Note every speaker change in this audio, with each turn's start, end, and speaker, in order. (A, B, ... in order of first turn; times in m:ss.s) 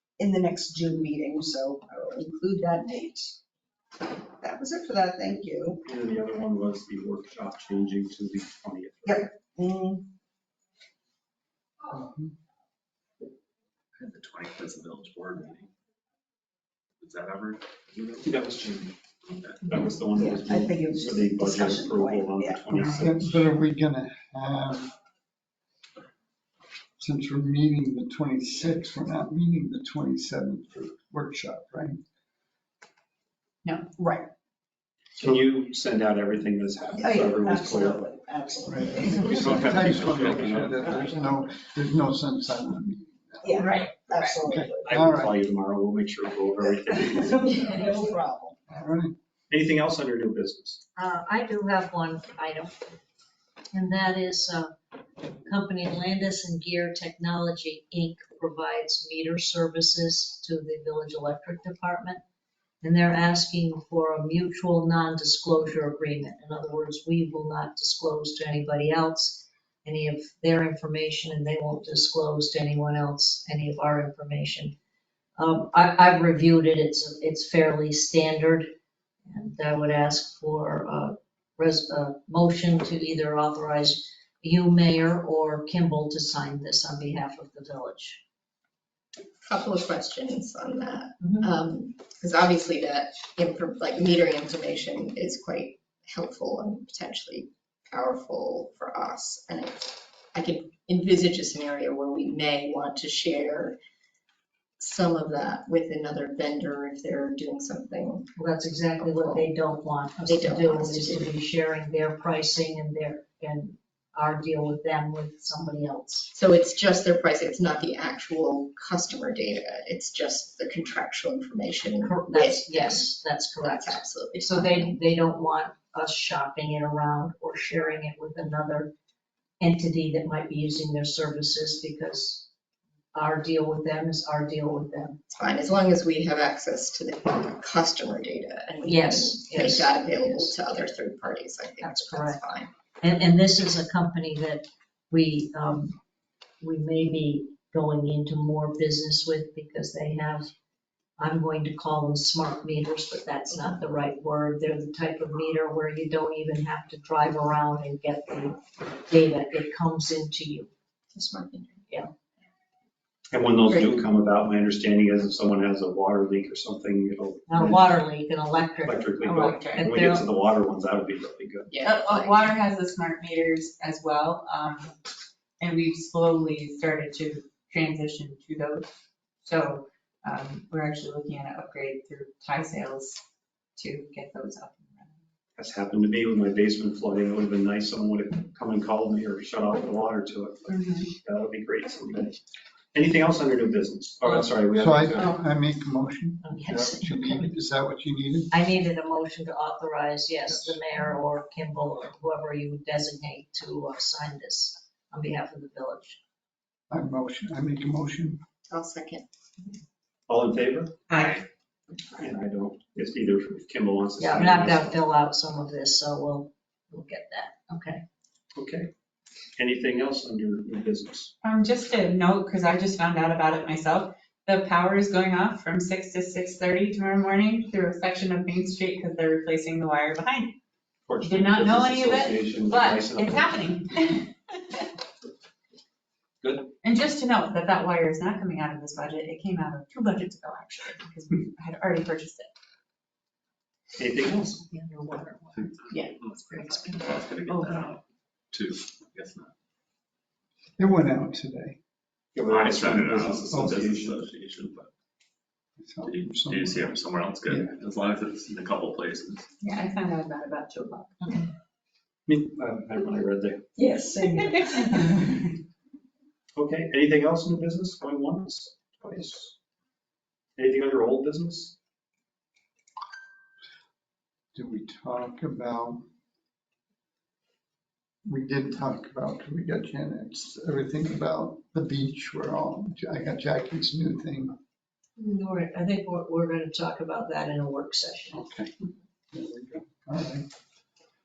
0:00.2-0:03.4 A
0:04.3-0:05.8 A
0:05.8-0:09.3 B
0:09.0-0:10.0 A
0:11.9-0:12.3 C
0:14.0-0:15.7 D
0:17.0-0:18.3 D
0:18.2-0:18.9 B
0:19.3-0:20.0 D
0:19.7-0:23.5 B
0:20.1-0:23.0 A
0:22.7-0:24.9 C
0:27.0-0:32.0 C
0:33.6-0:33.9 E
0:34.0-0:34.3 A
0:35.2-0:38.0 B
0:37.0-0:39.8 A
0:38.7-0:43.8 C
0:39.1-0:41.1 B
0:39.2-0:40.5 D
0:43.4-0:44.9 A
0:44.4-0:45.3 C
0:44.8-0:47.8 B
0:46.8-0:48.7 A
0:48.7-0:49.1 C
0:49.5-0:50.8 B
0:51.0-0:52.8 F
0:53.7-0:54.7 F
0:55.4-1:02.2 F
1:02.8-1:14.7 F
1:15.4-1:18.7 F
1:19.3-1:28.2 F
1:29.4-1:43.8 G
1:44.8-1:48.3 G
1:48.4-1:56.3 F
1:49.0-1:49.4 G
1:50.2-1:51.3 G
1:56.3-2:04.9 G
2:02.0-2:08.9 F
2:09.6-2:12.5 F
2:13.1-2:15.2 F
2:15.3-2:22.7 G
2:18.8-2:20.6 F
2:21.8-2:22.4 F
2:23.0-2:25.9 F
2:26.6-2:30.5 F
2:31.2-2:40.7 F
2:41.1-2:41.8 G
2:43.3-2:47.8 B
2:43.7-2:44.0 G
2:47.5-2:50.2 F
2:48.8-2:51.7 B
2:49.2-2:49.9 E
2:51.7-2:52.6 G
2:51.8-2:55.0 E
2:55.6-2:58.9 E
2:59.4-3:03.2 E
3:03.8-3:05.2 E
3:05.6-3:12.4 B
3:10.7-3:11.1 E
3:12.9-3:15.3 B
3:14.7-3:18.5 C
3:16.4-3:17.5 F
3:18.5-3:26.2 F
3:20.4-3:20.8 C
3:26.9-3:28.4 C
3:28.7-3:29.2 G
3:30.3-3:31.0 B
3:31.1-3:31.4 E
3:32.1-3:35.0 B
3:34.2-3:38.0 F
3:38.5-3:38.9 B
3:39.6-3:41.3 B
3:41.4-3:50.6 E
3:51.1-3:53.5 B
3:51.2-3:54.9 E
3:56.4-3:56.7 B
3:56.8-4:02.5 E
4:04.0-4:04.6 B
4:04.9-4:09.5 D
4:05.9-4:07.9 E
4:10.8-4:11.8 C
4:12.3-4:14.2 B
4:12.5-4:14.9 D
4:13.5-4:13.7 C
4:15.8-4:16.9 C
4:16.0-4:19.4 D
4:19.6-4:21.4 E
4:22.3-4:23.7 B
4:23.8-4:25.4 E
4:26.5-4:29.5 B
4:30.6-4:31.7 B
4:34.5-4:36.0 C
4:38.2-4:44.5 C
4:45.2-4:48.4 F
4:48.3-4:48.7 C
4:49.3-4:50.4 C